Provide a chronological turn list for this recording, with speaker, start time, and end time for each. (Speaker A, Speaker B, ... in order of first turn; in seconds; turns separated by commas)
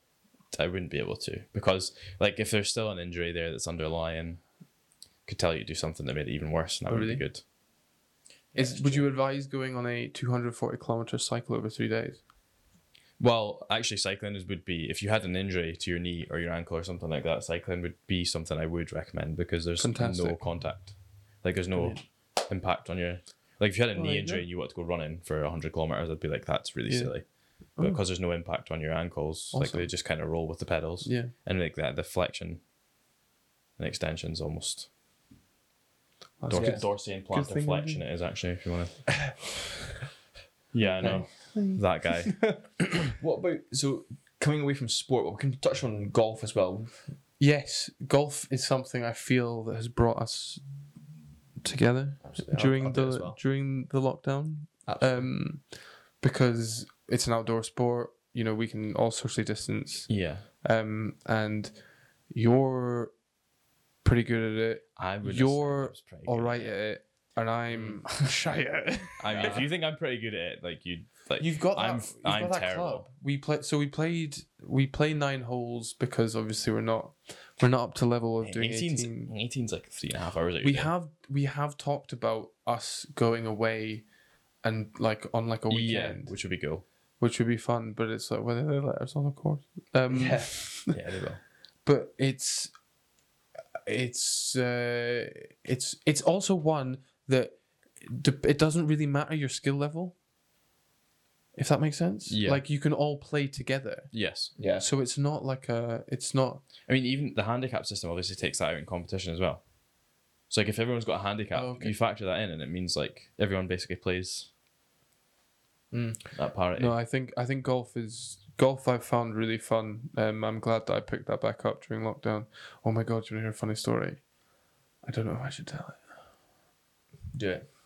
Speaker A: 0.5-4.5, Speaker A: 5.2-7.4, Speaker B: 6.9-7.3, Speaker C: 8.5-9.1, Speaker B: 8.5-12.2, Speaker A: 13.2-32.6, Speaker B: 19.8-20.5, Speaker B: 21.7-22.0, Speaker B: 23.9-24.4, Speaker B: 26.9-27.2, Speaker B: 27.7-28.0, Speaker B: 29.5-29.9, Speaker B: 31.0-31.3, Speaker A: 33.8-34.9, Speaker B: 36.4-38.0, Speaker A: 36.5-39.2, Speaker C: 36.6-36.8, Speaker A: 40.7-42.7, Speaker B: 41.0-42.6, Speaker C: 43.1-47.1, Speaker B: 47.4-50.6, Speaker B: 51.6-63.1, Speaker C: 52.2-53.4, Speaker C: 54.9-55.3, Speaker A: 60.1-60.4, Speaker B: 64.0-69.6, Speaker A: 65.0-66.7, Speaker A: 69.2-73.1, Speaker B: 71.4-79.3, Speaker A: 78.4-80.9, Speaker B: 80.6-84.0, Speaker B: 84.6-86.4, Speaker A: 85.7-86.8, Speaker B: 87.2-90.9, Speaker C: 90.1-90.6, Speaker A: 90.9-91.4, Speaker B: 91.8-92.7, Speaker B: 93.8-100.2, Speaker B: 101.5-106.6, Speaker A: 102.3-102.6, Speaker A: 104.1-104.5, Speaker C: 104.6-104.8, Speaker A: 106.9-109.6, Speaker A: 110.5-114.5, Speaker B: 111.5-112.0, Speaker A: 116.3-116.9, Speaker B: 116.7-124.3, Speaker B: 125.0-126.0, Speaker C: 127.3-127.7